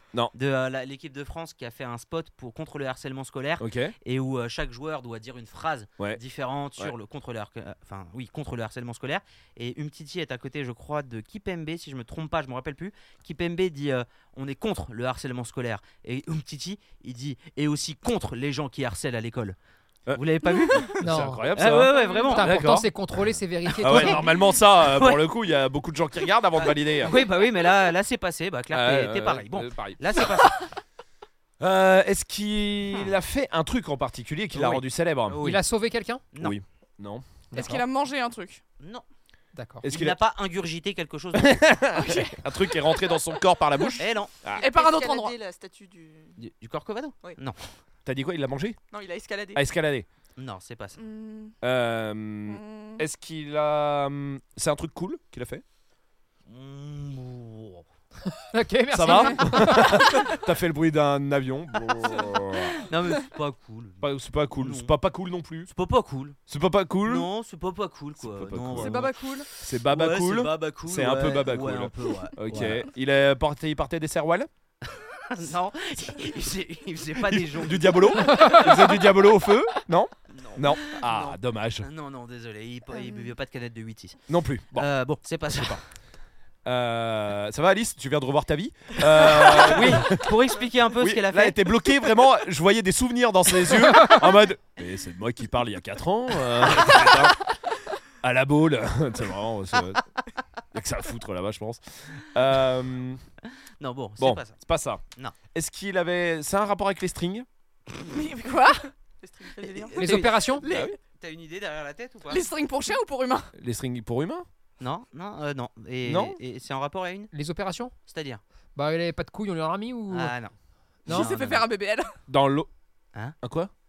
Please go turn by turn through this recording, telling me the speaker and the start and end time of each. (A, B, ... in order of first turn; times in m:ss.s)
0:00.3-0:19.6 A
0:03.6-0:03.9 B
0:20.1-0:22.9 B
0:20.1-0:20.9 A
0:21.0-0:21.6 C
0:21.6-0:22.5 A
0:21.9-0:22.2 D
0:21.9-0:22.3 E
0:22.3-0:24.2 C
0:23.8-0:27.1 B
0:23.8-0:25.2 A
0:26.5-0:30.6 A
0:28.7-0:30.2 B
0:31.6-0:35.4 B
0:34.5-0:35.6 A
0:35.4-0:36.2 C
0:36.3-0:36.6 A
0:36.4-0:37.8 B
0:37.5-0:37.8 C
0:37.5-0:38.6 E
0:38.8-0:39.0 A
0:39.5-0:39.8 C
0:39.8-0:40.2 B
0:39.9-0:41.6 A
0:41.3-0:44.6 B
0:41.9-0:42.4 E
0:44.0-0:44.4 A
0:44.6-0:46.4 D
0:44.6-0:45.4 E
0:46.4-0:47.6 A
0:48.0-0:48.8 B
0:48.9-0:49.6 D
0:49.5-0:50.0 B
0:50.4-0:51.0 A
0:51.0-0:51.5 E
0:51.6-0:55.6 B
0:52.5-0:53.0 E
0:56.5-0:57.8 A
0:58.3-1:00.0 C
0:58.9-1:02.8 B
0:59.1-0:59.3 E
1:02.7-1:04.0 A
1:04.0-1:05.7 B
1:04.6-1:04.9 A
1:05.7-1:06.4 A
1:06.5-1:07.3 B
1:07.0-1:09.1 A
1:08.2-1:14.5 B
1:08.7-1:09.5 D
1:09.9-1:12.9 A
1:14.9-1:18.6 A
1:17.3-1:21.9 B
1:20.3-1:24.2 A
1:24.3-1:24.9 B
1:24.7-1:25.8 A
1:26.6-1:30.3 B
1:29.2-1:31.6 A
1:31.0-1:37.4 B
1:33.9-1:34.2 C
1:38.2-1:40.0 B
1:40.7-1:43.2 B
1:43.8-1:44.6 A
1:44.2-1:45.0 B
1:45.5-1:47.5 B
1:48.1-1:48.9 E
1:49.2-1:51.0 D
1:49.6-1:50.4 A
1:50.0-1:50.6 C
1:50.6-1:51.0 B
1:51.2-1:52.4 A
1:52.3-1:53.5 E
1:53.6-1:54.4 B
1:54.8-1:57.3 A
1:56.0-1:56.4 B
1:57.3-1:57.9 C
1:58.1-1:58.4 A
1:58.8-2:00.3 C
2:00.1-2:00.5 A
2:01.1-2:01.7 A
2:01.1-2:02.1 E
2:02.3-2:02.7 B
2:03.4-2:03.7 B